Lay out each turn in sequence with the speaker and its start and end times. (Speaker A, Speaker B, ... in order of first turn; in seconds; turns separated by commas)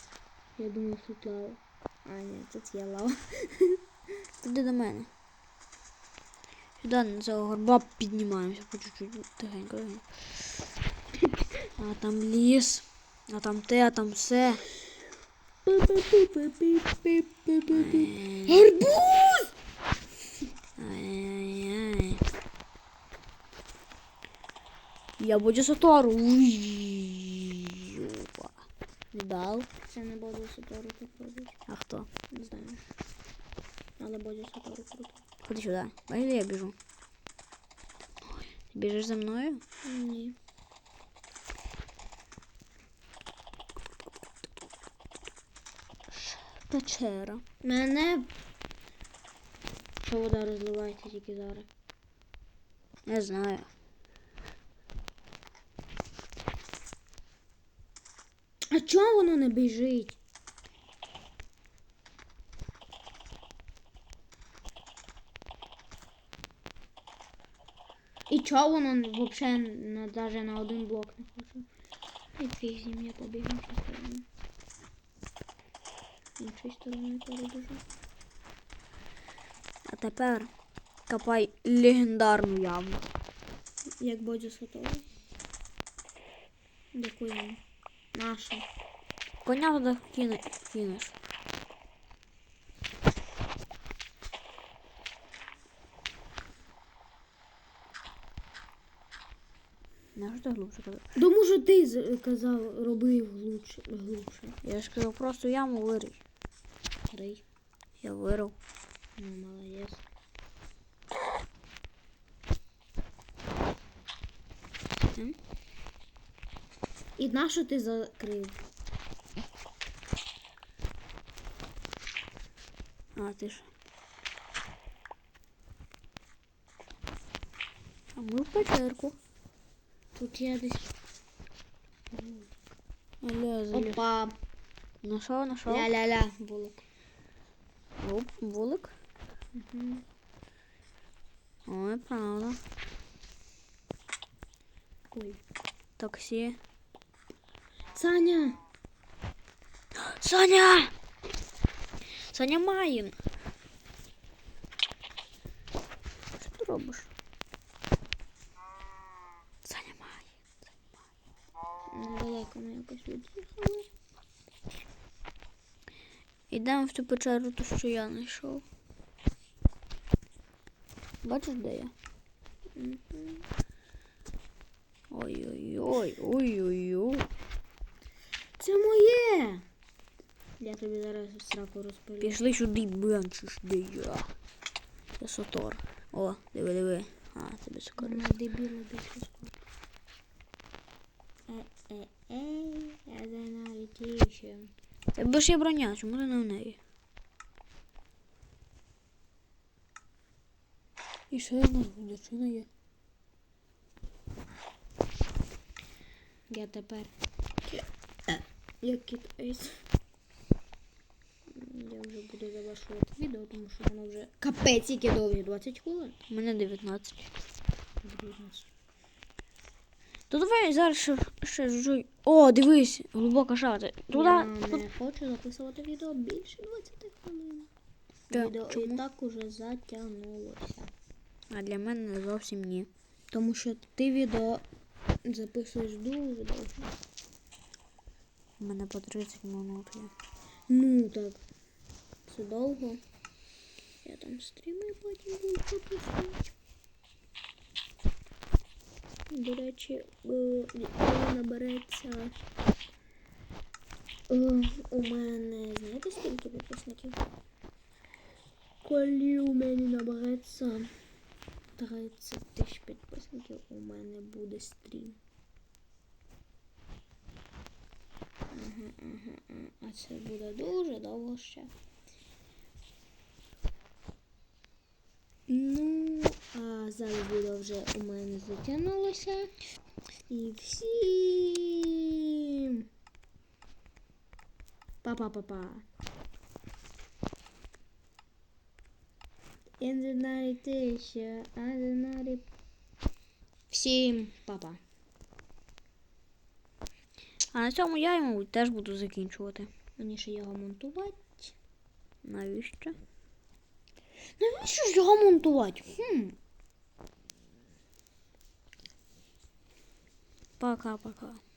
Speaker A: 0.6-3.8, Speaker B: 4.4-5.1, Speaker B: 6.8-10.5, Speaker B: 11.8-14.6, Speaker A: 15.7-19.5, Speaker B: 17.7-18.6, Speaker B: 20.8-22.2, Speaker B: 25.2-28.5, Speaker B: 29.1-29.7, Speaker A: 29.9-31.6, Speaker B: 31.7-32.1, Speaker A: 32.3-32.8, Speaker A: 34.0-35.2, Speaker B: 35.4-36.8, Speaker B: 38.3-39.6, Speaker A: 39.8-40.4, Speaker B: 46.1-47.4, Speaker A: 47.6-48.3, Speaker A: 50.0-51.7, Speaker B: 53.1-53.7, Speaker A: 58.7-60.2, Speaker A: 68.3-71.7, Speaker A: 72.4-74.2, Speaker A: 76.4-77.8, Speaker B: 79.9-80.5, Speaker B: 81.1-83.1, Speaker A: 84.0-85.1, Speaker A: 86.9-87.6, Speaker A: 88.1-88.7, Speaker B: 89.5-91.1, Speaker B: 100.2-101.0, Speaker A: 101.2-104.6, Speaker B: 104.6-106.2, Speaker A: 107.1-107.4, Speaker B: 108.0-108.5, Speaker A: 109.2-110.0, Speaker A: 117.2-118.6, Speaker B: 123.2-123.7, Speaker B: 128.2-129.2, Speaker A: 130.2-130.9, Speaker A: 132.1-132.5, Speaker B: 133.2-134.0, Speaker A: 133.7-134.3, Speaker B: 135.0-135.9, Speaker A: 135.7-136.8, Speaker B: 138.0-138.9, Speaker A: 139.6-140.0, Speaker B: 141.7-142.6, Speaker A: 145.1-145.4, Speaker B: 146.0-146.6, Speaker A: 147.9-148.6, Speaker B: 150.0-150.9, Speaker B: 152.3-153.2, Speaker B: 156.4-157.1, Speaker B: 159.6-160.3, Speaker A: 161.9-163.9, Speaker B: 166.5-168.6, Speaker B: 171.2-171.9, Speaker A: 172.8-173.4, Speaker B: 175.1-177.3, Speaker A: 178.6-179.6, Speaker A: 180.6-182.3, Speaker B: 182.2-184.3, Speaker B: 185.2-188.3, Speaker A: 188.0-189.6, Speaker A: 191.5-194.7, Speaker B: 195.2-196.8, Speaker B: 201.3-202.7, Speaker A: 206.5-207.1, Speaker A: 207.7-209.8, Speaker A: 211.5-216.2, Speaker B: 216.3-217.3, Speaker A: 218.0-218.7, Speaker B: 220.3-224.8, Speaker A: 224.1-227.7, Speaker A: 228.3-230.9, Speaker B: 228.3-229.0, Speaker B: 231.5-232.9, Speaker A: 233.3-234.6, Speaker A: 235.2-236.9, Speaker B: 238.6-240.1, Speaker A: 240.7-241.4, Speaker A: 242.3-243.0, Speaker A: 244.0-246.5, Speaker A: 249.3-252.4, Speaker A: 254.3-257.2, Speaker A: 258.8-260.9, Speaker A: 261.8-265.2, Speaker A: 268.5-271.7, Speaker A: 275.5-279.5, Speaker A: 280.3-282.9, Speaker A: 285.0-285.9, Speaker A: 289.8-292.4, Speaker A: 293.7-294.8, Speaker B: 297.5-299.7, Speaker A: 300.0-301.5, Speaker B: 302.2-303.0, Speaker A: 304.4-306.4, Speaker B: 310.6-311.4